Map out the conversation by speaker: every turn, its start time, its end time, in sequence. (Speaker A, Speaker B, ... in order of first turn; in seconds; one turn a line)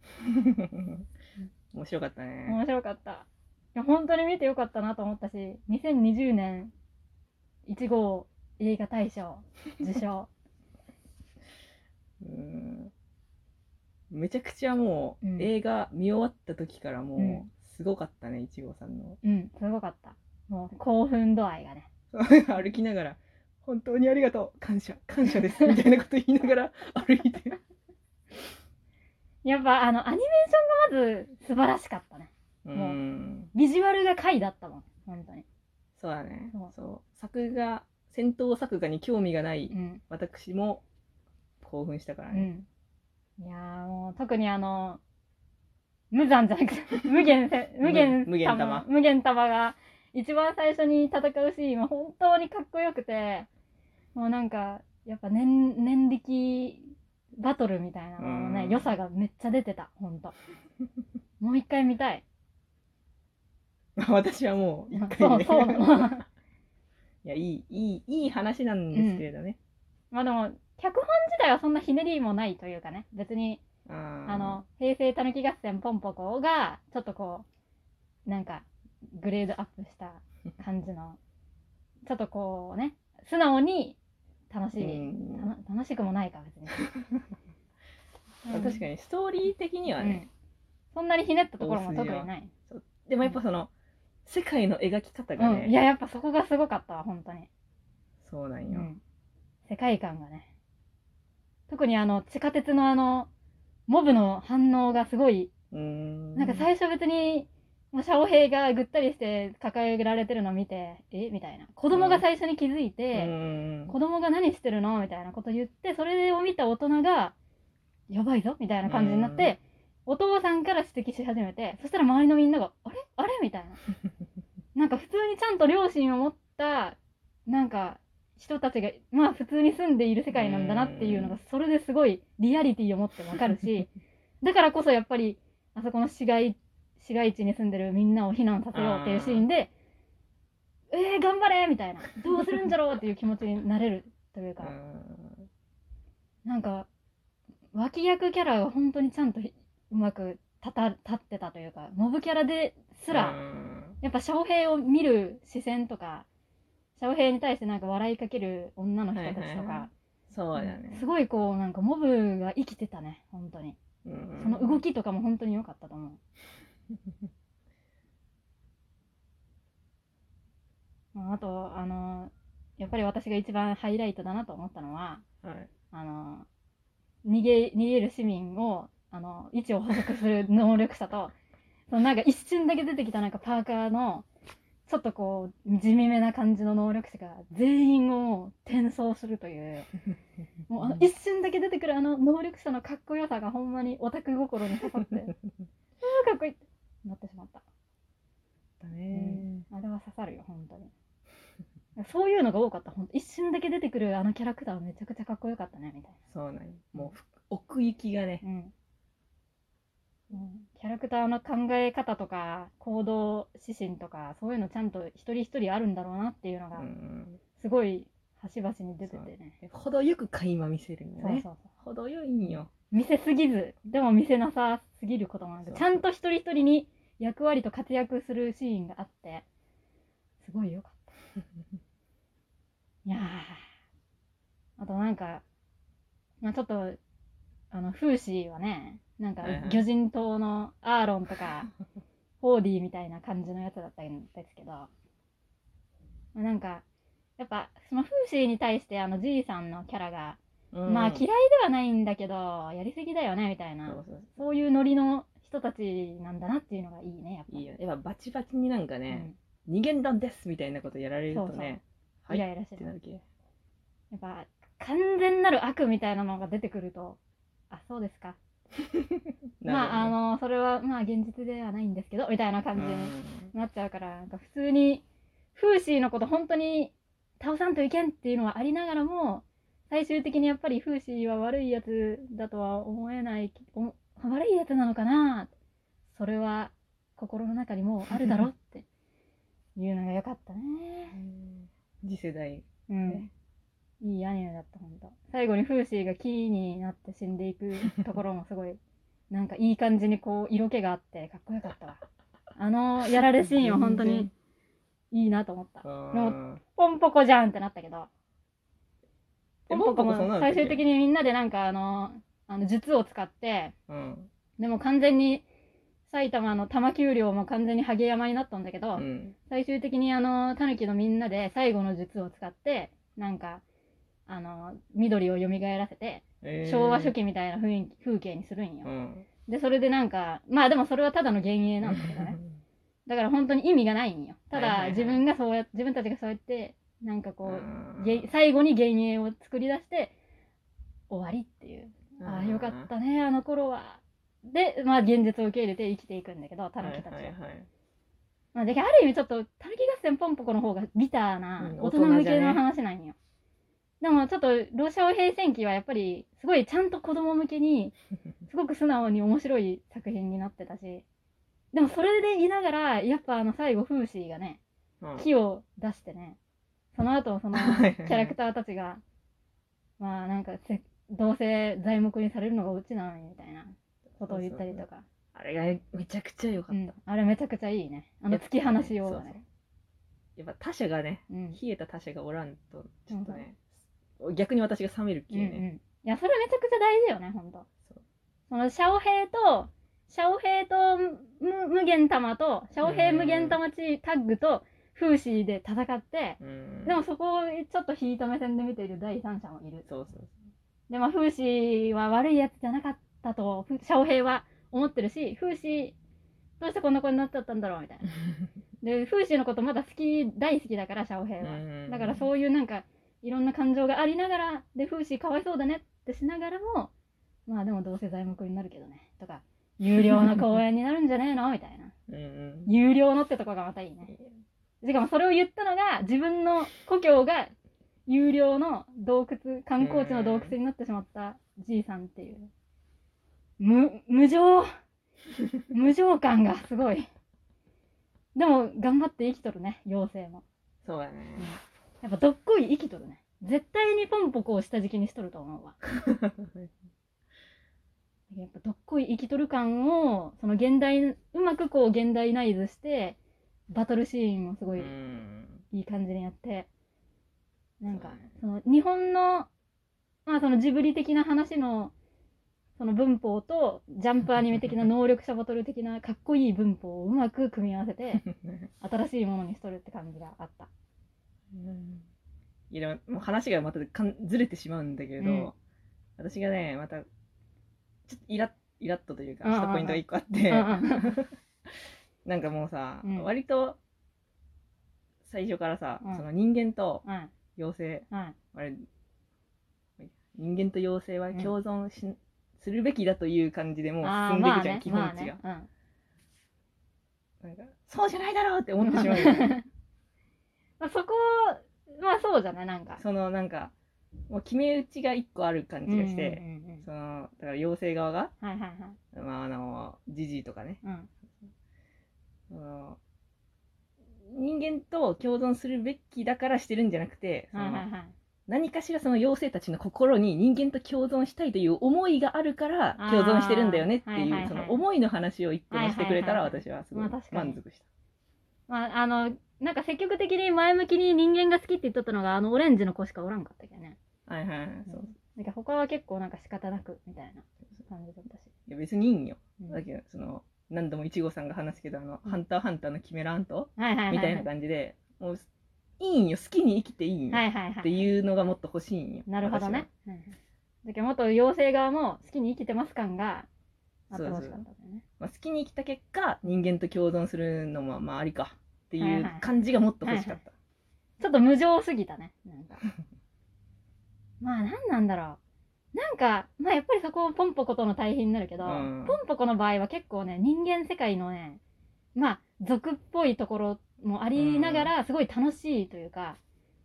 Speaker A: 0.3-1.1
Speaker A: 1.7-2.6
Speaker B: 2.5-6.7
Speaker B: 7.7-10.3
Speaker A: 12.2-12.9
Speaker A: 14.1-19.2
Speaker B: 15.2-15.5
Speaker B: 17.2-17.4
Speaker B: 19.2-21.9
Speaker A: 22.1-27.6
Speaker B: 29.4-33.0
Speaker A: 32.6-33.5
Speaker B: 33.5-35.5
Speaker A: 36.0-40.8
Speaker B: 39.7-40.0
Speaker A: 41.6-42.5
Speaker B: 42.3-42.7
Speaker B: 43.4-45.0
Speaker B: 46.1-53.5
Speaker A: 47.8-48.9
Speaker B: 54.1-60.4
Speaker A: 58.2-58.9
Speaker B: 61.4-62.2
Speaker A: 64.0-66.2
Speaker B: 64.9-66.2
Speaker A: 67.2-69.6
Speaker B: 68.9-69.3
Speaker B: 70.1-73.6
Speaker A: 73.9-74.6
Speaker B: 74.3-77.5
Speaker B: 78.3-81.2
Speaker B: 82.1-84.0
Speaker B: 84.5-86.8
Speaker A: 84.8-85.5
Speaker B: 88.5-88.8
Speaker A: 88.5-90.2
Speaker B: 90.0-90.3
Speaker B: 90.9-92.5
Speaker A: 91.6-93.7
Speaker A: 94.3-95.7
Speaker B: 95.4-97.5
Speaker A: 98.2-98.9
Speaker B: 98.7-99.0
Speaker B: 99.7-100.5
Speaker B: 101.7-103.3
Speaker B: 103.9-105.5
Speaker A: 105.7-106.7
Speaker B: 106.4-113.3
Speaker A: 111.9-112.2
Speaker A: 113.1-114.0
Speaker B: 113.9-117.3
Speaker B: 118.1-123.8
Speaker A: 118.9-119.5
Speaker B: 124.8-133.9
Speaker A: 130.3-131.4
Speaker B: 134.4-139.7
Speaker A: 138.7-139.5
Speaker B: 140.9-144.7
Speaker A: 144.6-145.5
Speaker B: 146.4-146.9
Speaker B: 147.7-153.4
Speaker A: 153.1-153.9
Speaker B: 154.0-156.3
Speaker B: 157.0-159.9
Speaker A: 159.1-161.1
Speaker B: 160.6-163.8
Speaker A: 164.1-164.8
Speaker B: 164.4-166.2
Speaker B: 171.1-175.2
Speaker A: 175.4-175.7
Speaker B: 175.9-176.5
Speaker B: 177.2-181.3
Speaker B: 181.9-184.3
Speaker B: 184.9-189.9
Speaker B: 190.7-195.3
Speaker B: 196.0-197.6
Speaker A: 198.8-199.7
Speaker B: 199.1-200.9
Speaker B: 202.0-206.2
Speaker A: 206.3-208.4
Speaker B: 208.4-208.7
Speaker B: 210.3-216.9
Speaker A: 216.8-217.4
Speaker B: 217.6-219.6
Speaker A: 219.0-222.7
Speaker B: 221.2-221.7
Speaker B: 222.9-229.4
Speaker A: 225.6-226.0
Speaker B: 230.4-231.2
Speaker B: 233.1-233.7
Speaker B: 234.8-235.4
Speaker B: 236.4-237.0
Speaker B: 237.7-241.7
Speaker A: 239.4-239.8
Speaker B: 242.4-244.9
Speaker B: 246.3-246.8
Speaker B: 247.4-257.7
Speaker A: 250.7-251.2
Speaker A: 253.9-254.3
Speaker A: 257.5-263.2
Speaker B: 259.1-259.3
Speaker B: 261.3-261.8
Speaker B: 262.3-262.9
Speaker B: 264.1-267.2
Speaker B: 267.7-268.4
Speaker A: 269.6-270.1
Speaker B: 269.7-275.0
Speaker A: 272.8-273.5
Speaker B: 275.6-285.5
Speaker B: 286.1-288.9
Speaker B: 289.8-291.2
Speaker A: 291.1-293.3
Speaker B: 292.9-293.3
Speaker B: 294.0-298.8
Speaker B: 299.3-302.0
Speaker B: 302.6-304.3
Speaker A: 303.4-304.3
Speaker B: 305.1-308.1
Speaker A: 305.8-306.6
Speaker A: 309.7-310.8
Speaker B: 309.7-313.7
Speaker A: 313.9-314.3
Speaker B: 314.6-315.4
Speaker B: 316.1-323.6
Speaker A: 319.0-319.4
Speaker B: 324.3-328.9
Speaker A: 326.4-327.1
Speaker A: 328.9-329.3
Speaker B: 329.5-332.4
Speaker A: 331.8-332.6
Speaker B: 333.1-340.1
Speaker A: 334.5-335.2
Speaker A: 337.4-338.3
Speaker B: 341.1-347.3
Speaker A: 342.2-342.9
Speaker A: 346.8-347.7
Speaker B: 348.5-353.2
Speaker A: 351.6-352.6
Speaker B: 354.0-357.9
Speaker B: 358.5-361.0
Speaker B: 361.7-364.6
Speaker A: 365.0-365.3
Speaker B: 365.2-366.4
Speaker B: 366.9-369.0
Speaker A: 367.5-368.4
Speaker B: 370.0-375.1
Speaker A: 374.3-376.9
Speaker B: 376.7-379.4
Speaker A: 378.3-379.4
Speaker A: 380.4-383.7
Speaker B: 381.3-381.6
Speaker B: 383.1-383.4
Speaker A: 384.2-385.6
Speaker B: 385.3-387.7
Speaker B: 388.5-399.9
Speaker A: 392.8-393.6
Speaker A: 396.4-397.0
Speaker A: 399.9-400.3
Speaker B: 400.9-406.0
Speaker B: 406.6-408.1
Speaker B: 408.8-416.9
Speaker A: 411.4-412.2
Speaker B: 417.5-421.9
Speaker A: 422.1-422.7
Speaker B: 422.7-424.1
Speaker B: 424.8-427.5
Speaker B: 428.1-432.5
Speaker A: 429.8-430.5
Speaker B: 433.6-434.7
Speaker B: 435.7-437.1
Speaker B: 438.4-440.4
Speaker A: 440.8-441.5
Speaker B: 441.4-445.8
Speaker A: 446.0-446.7
Speaker B: 448.3-453.2
Speaker B: 453.7-454.9
Speaker A: 454.8-455.6
Speaker B: 455.7-456.7
Speaker B: 457.8-459.5
Speaker A: 457.9-458.2
Speaker B: 460.3-461.9
Speaker B: 462.8-468.2
Speaker A: 468.2-468.7
Speaker B: 468.8-470.7
Speaker A: 471.5-472.1
Speaker A: 472.7-475.6
Speaker B: 475.2-475.5
Speaker A: 476.2-477.1
Speaker A: 478.1-481.3
Speaker B: 479.4-481.2
Speaker A: 482.2-483.8
Speaker B: 483.0-483.3
Speaker A: 485.2-487.0
Speaker B: 487.1-487.3
Speaker A: 487.6-488.8
Speaker B: 488.1-488.4
Speaker A: 490.0-495.4
Speaker B: 494.0-495.7
Speaker A: 497.4-499.6
Speaker B: 498.8-499.6
Speaker B: 500.8-503.0
Speaker A: 503.0-503.7
Speaker A: 504.3-508.3
Speaker B: 505.9-506.9
Speaker B: 508.4-509.0
Speaker A: 509.1-510.8
Speaker B: 510.8-511.1
Speaker A: 512.5-513.0
Speaker A: 514.2-517.9
Speaker B: 517.5-518.1
Speaker A: 518.5-527.9
Speaker B: 523.0-524.8
Speaker B: 525.7-527.6
Speaker B: 528.7-534.0
Speaker A: 534.3-535.1
Speaker B: 534.9-538.5
Speaker A: 538.7-545.5
Speaker B: 543.8-544.5
Speaker A: 546.0-549.9
Speaker B: 547.3-548.1
Speaker B: 549.3-553.5
Speaker A: 554.1-554.6
Speaker B: 554.1-555.0
Speaker A: 555.2-560.5
Speaker B: 559.0-559.5
Speaker B: 560.0-560.4
Speaker B: 561.2-562.9
Speaker B: 564.4-565.4
Speaker B: 565.9-571.6
Speaker A: 568.6-569.2
Speaker B: 572.1-576.4
Speaker A: 574.4-574.9